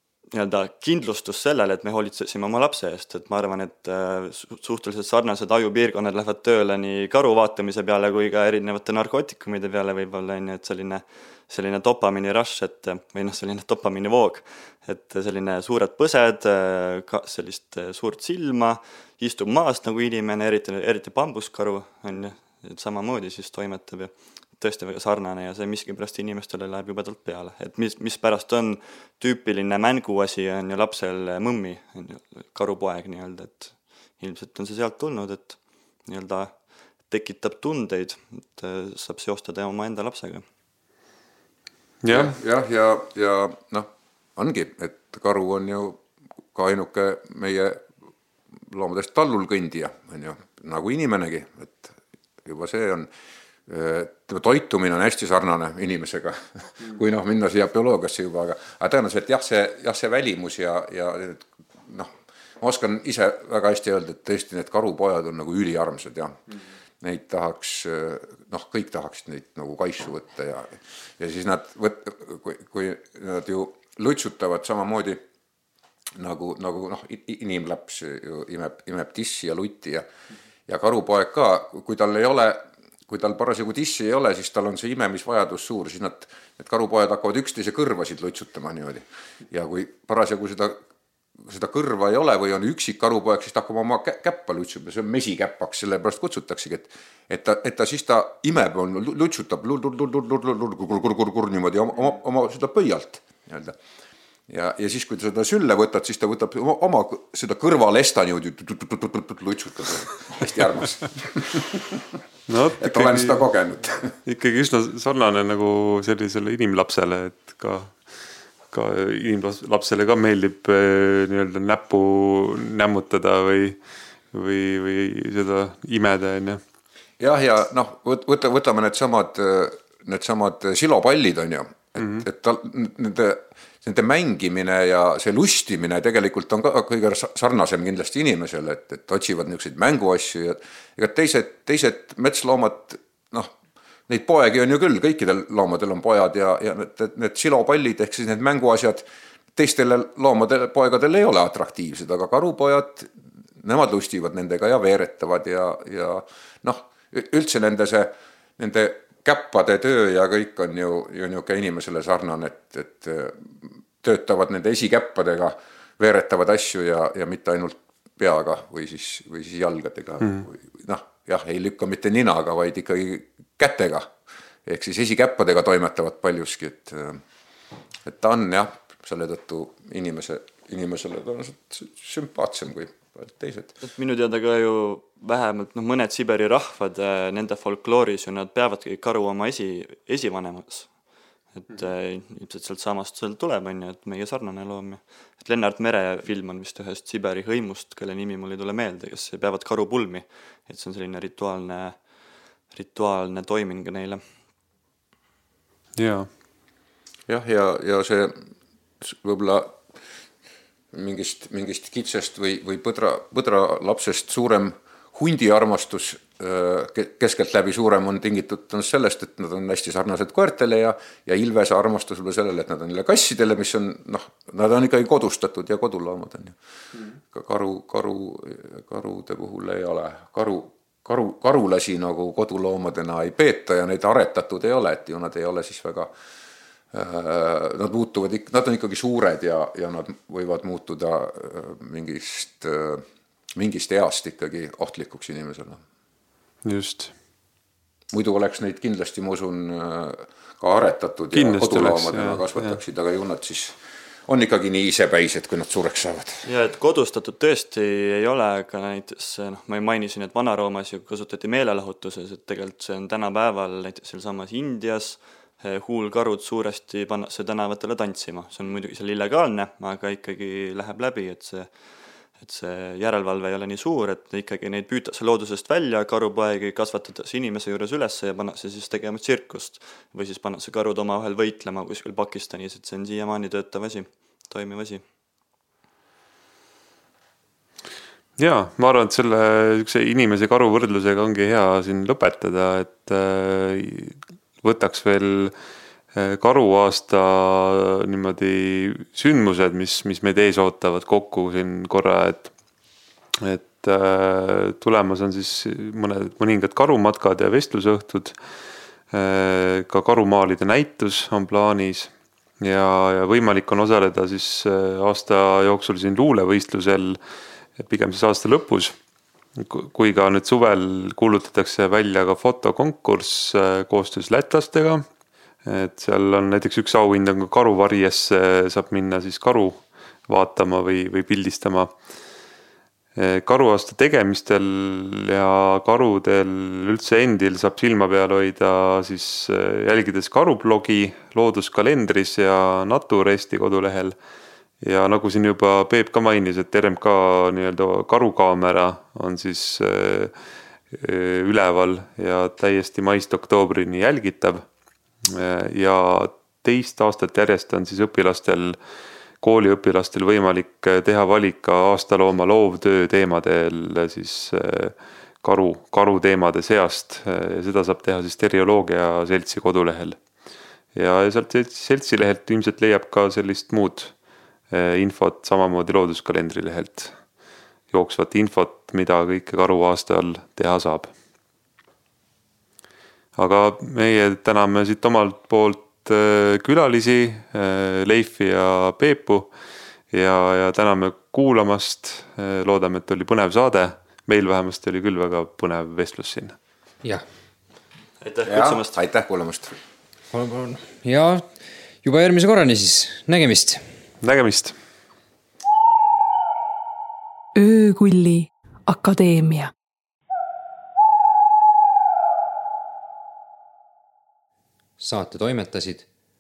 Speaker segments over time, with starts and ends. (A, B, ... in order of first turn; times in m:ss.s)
0:00.3-0:40.4 A
0:42.0-0:42.3 B
0:42.1-0:46.0 C
0:46.5-0:47.8 C
0:48.7-0:53.1 C
0:53.7-1:15.2 C
1:16.2-1:20.0 C
1:20.7-1:30.8 C
1:31.4-1:43.8 C
1:44.5-1:52.0 C
1:52.5-1:53.4 B
1:52.8-1:54.2 C
1:54.2-1:58.1 B
1:58.7-2:03.8 B
2:04.3-2:06.6 B
2:07.2-2:23.5 C
2:12.0-2:12.2 B
2:24.1-2:54.1 C
2:54.7-2:57.2 C
2:58.0-3:03.8 C
3:03.8-3:11.0 A
3:11.6-3:22.0 A
3:22.7-3:24.2 A
3:26.0-3:26.3 B
3:27.3-3:28.4 C
3:29.0-3:29.8 C
3:30.9-3:56.1 C
3:56.9-4:05.8 C
4:06.6-4:07.1 B
4:08.1-4:16.4 C
4:11.3-4:12.8 B
4:16.4-4:31.7 A
4:32.4-4:45.0 A
4:48.4-4:55.5 B
4:56.1-5:02.5 B
5:03.4-5:08.4 B
5:09.1-5:17.2 B
5:17.8-5:19.0 B
5:19.6-5:25.0 B
5:25.6-5:32.0 B
5:33.2-5:44.2 B
5:44.8-5:50.3 B
5:50.9-5:54.7 B
5:55.2-5:58.8 B
5:59.4-6:10.2 B
6:10.9-6:14.2 B
6:14.7-6:17.2 B
6:17.9-6:21.1 B
6:23.4-6:29.5 B
6:30.1-6:36.6 B
6:38.2-6:38.9 A
6:38.4-6:39.7 C
6:40.3-6:41.4 D
6:42.0-6:43.8 D
6:44.2-6:44.8 B
6:47.6-6:49.7 E
6:55.0-6:56.0 D